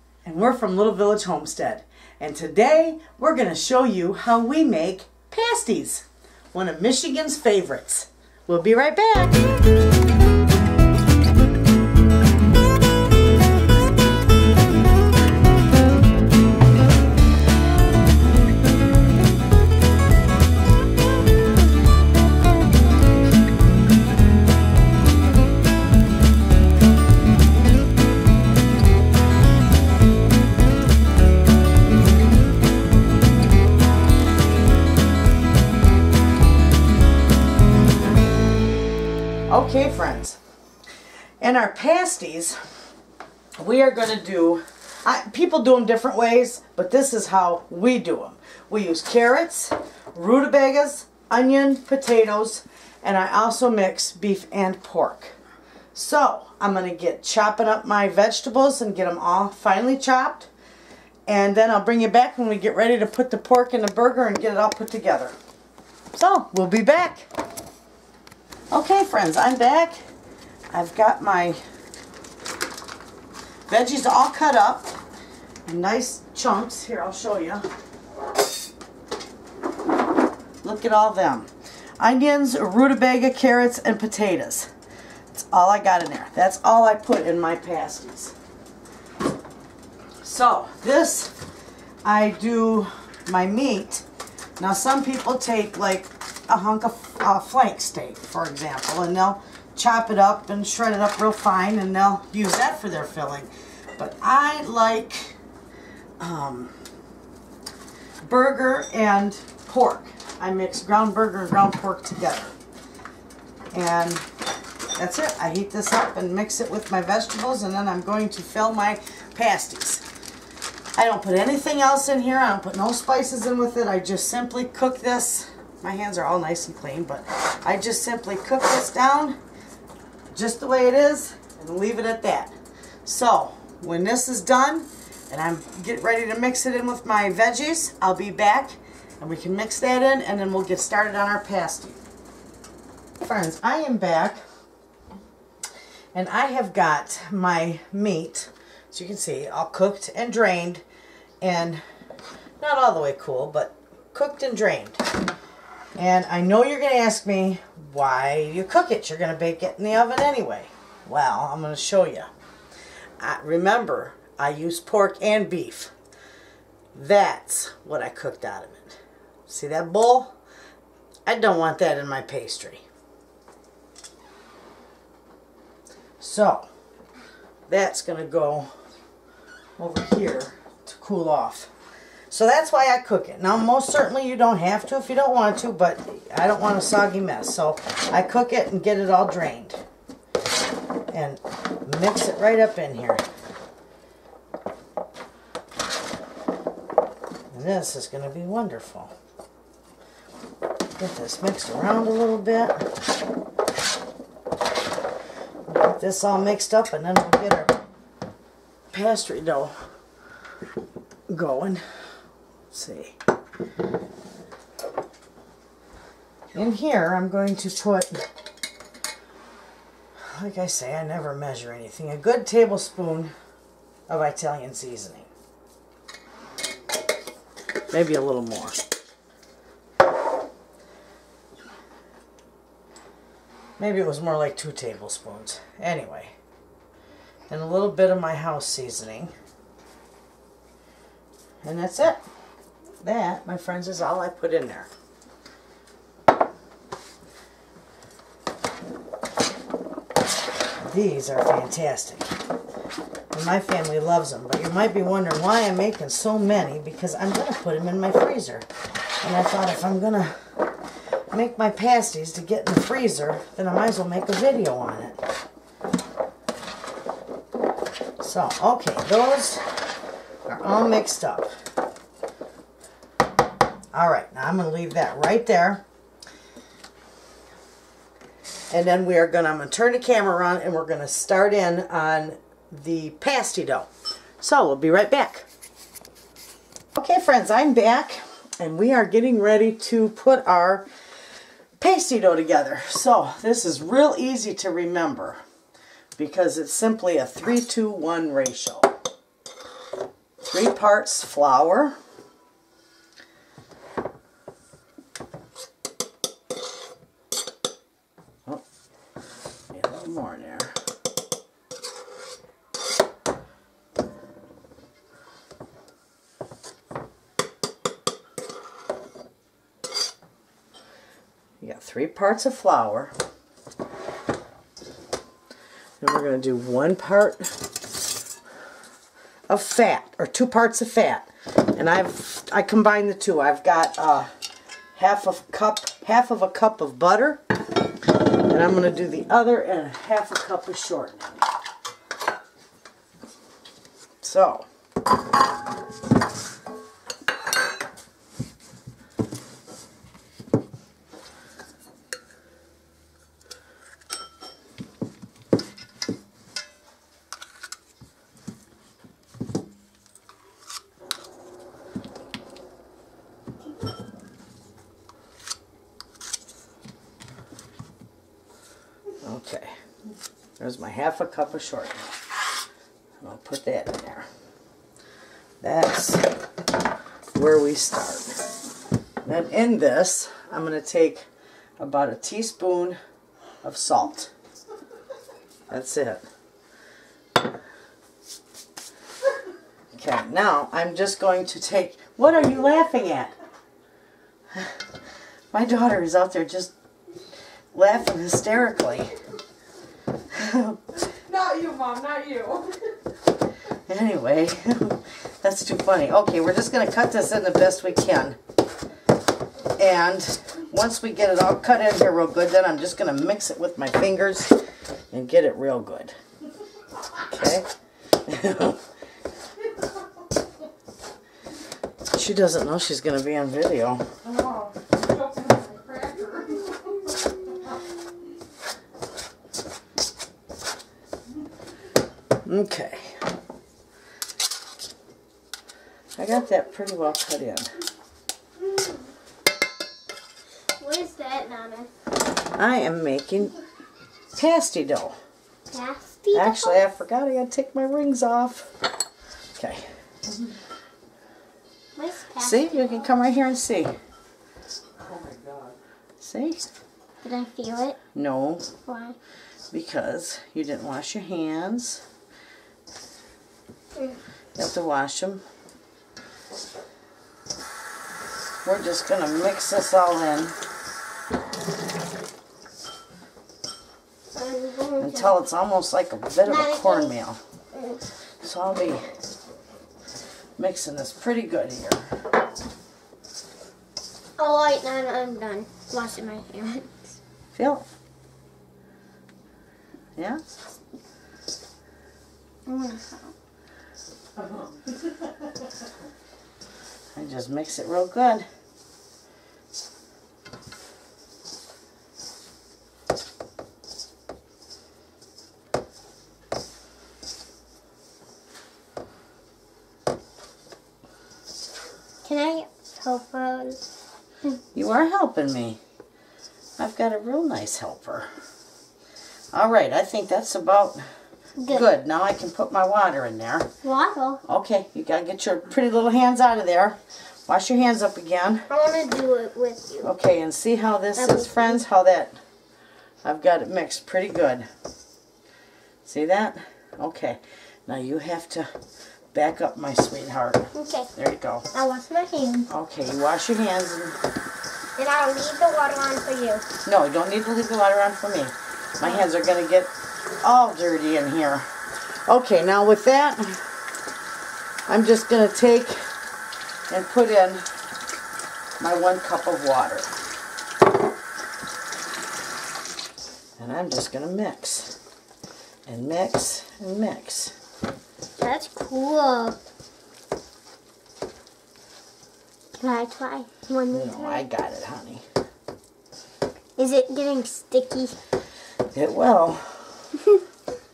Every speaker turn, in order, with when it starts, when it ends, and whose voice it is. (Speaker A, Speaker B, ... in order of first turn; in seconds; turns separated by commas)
Speaker A: 0.2-9.4, Speaker A: 39.5-40.4, Speaker A: 41.4-42.6, Speaker A: 43.6-55.3, Speaker A: 55.9-60.5, Speaker A: 61.3-65.3, Speaker A: 66.1-67.3, Speaker A: 68.7-70.0, Speaker A: 70.7-71.6, Speaker A: 73.7-74.9, Speaker A: 75.7-77.6, Speaker A: 80.6-84.7, Speaker A: 85.3-88.3, Speaker A: 90.2-91.3, Speaker A: 92.0-94.0, Speaker A: 94.6-105.4, Speaker A: 106.2-106.8, Speaker A: 108.2-112.5, Speaker A: 113.7-114.2, Speaker A: 115.0-120.0, Speaker A: 121.0-129.4, Speaker A: 130.3-142.0, Speaker A: 143.2-144.4, Speaker A: 146.1-150.8, Speaker A: 151.4-151.8, Speaker A: 152.6-155.0, Speaker A: 155.9-162.3, Speaker A: 163.2-165.9, Speaker A: 166.9-170.3, Speaker A: 171.2-172.8, Speaker A: 176.2-176.7, Speaker A: 177.7-178.7, Speaker A: 179.8-181.7, Speaker A: 182.3-189.8, Speaker A: 191.1-193.2, Speaker A: 197.5-199.1, Speaker A: 200.9-202.9, Speaker A: 205.7-207.7, Speaker A: 208.9-209.7, Speaker A: 211.3-211.8, Speaker A: 212.7-213.2, Speaker A: 216.5-218.2, Speaker A: 220.3-223.3, Speaker A: 224.1-225.3, Speaker A: 227.9-228.9, Speaker A: 233.8-236.3, Speaker A: 237.5-239.3, Speaker A: 241.6-242.2, Speaker A: 243.0-244.9, Speaker A: 250.8-252.3, Speaker A: 253.3-258.7, Speaker A: 259.2-260.4, Speaker A: 261.3-265.2, Speaker A: 268.2-269.6, Speaker A: 270.4-271.5, Speaker A: 273.9-275.8, Speaker A: 278.7-283.9, Speaker A: 284.4-285.4, Speaker A: 286.9-290.9, Speaker A: 291.8-295.4, Speaker A: 296.2-298.9, Speaker A: 300.4-301.9, Speaker A: 309.7-310.7, Speaker A: 321.6-323.1, Speaker A: 326.0-327.5, Speaker A: 329.5-334.3, Speaker A: 334.9-337.4, Speaker A: 338.5-341.4, Speaker A: 344.2-344.6, Speaker A: 369.2-369.7, Speaker A: 370.6-372.0, Speaker A: 373.2-374.3, Speaker A: 375.6-376.4, Speaker A: 377.3-378.4, Speaker A: 379.2-381.2, Speaker A: 381.8-383.0, Speaker A: 383.6-384.3, Speaker A: 385.7-386.2, Speaker A: 389.9-393.3, Speaker A: 394.5-394.8, Speaker A: 395.5-396.7, Speaker A: 397.7-399.1, Speaker A: 400.3-400.8, Speaker B: 401.5-402.7, Speaker A: 403.9-408.4, Speaker A: 409.8-414.5, Speaker A: 415.1-416.1, Speaker A: 417.2-417.7, Speaker A: 418.2-418.8, Speaker A: 422.1-424.1, Speaker B: 424.3-426.6, Speaker A: 432.4-433.2, Speaker A: 436.2-437.7, Speaker C: 440.8-441.9, Speaker A: 442.5-443.5, Speaker A: 444.4-445.1, Speaker C: 445.7-446.8, Speaker A: 446.3-448.7, Speaker A: 449.6-449.9, Speaker C: 451.9-453.0, Speaker A: 452.4-453.9, Speaker A: 456.2-456.6, Speaker C: 457.2-458.0, Speaker A: 458.1-458.7, Speaker C: 458.9-459.1, Speaker A: 459.7-462.0, Speaker A: 464.6-465.4, Speaker A: 468.6-470.5, Speaker C: 474.3-475.4, Speaker A: 475.0-477.4, Speaker C: 476.4-477.1, Speaker C: 477.7-478.0, Speaker A: 478.4-479.0, Speaker A: 480.6-482.1, Speaker C: 484.4-487.1, Speaker A: 487.5-487.9, Speaker A: 490.1-490.4, Speaker C: 492.6-493.3, Speaker A: 497.1-498.4, Speaker C: 512.2-513.8, Speaker A: 514.7-515.8, Speaker A: 516.8-518.3, Speaker A: 519.5-521.0, Speaker C: 521.6-521.9, Speaker A: 521.7-523.7, Speaker C: 523.8-524.4, Speaker A: 524.5-528.7, Speaker C: 528.7-530.1, Speaker A: 530.0-532.4, Speaker C: 531.1-531.8, Speaker A: 533.2-534.7, Speaker A: 536.0-538.7, Speaker A: 539.3-541.7, Speaker C: 540.7-541.1, Speaker C: 541.7-542.7, Speaker A: 542.7-544.2, Speaker C: 545.0-546.6, Speaker A: 546.8-549.9, Speaker A: 550.4-551.6, Speaker A: 552.3-553.6, Speaker A: 554.9-556.0, Speaker A: 556.9-557.6, Speaker A: 558.8-560.1, Speaker A: 563.6-565.0, Speaker A: 565.9-567.5, Speaker C: 568.4-569.6, Speaker C: 572.8-574.4, Speaker A: 573.9-575.2, Speaker C: 576.8-578.1, Speaker A: 578.9-580.0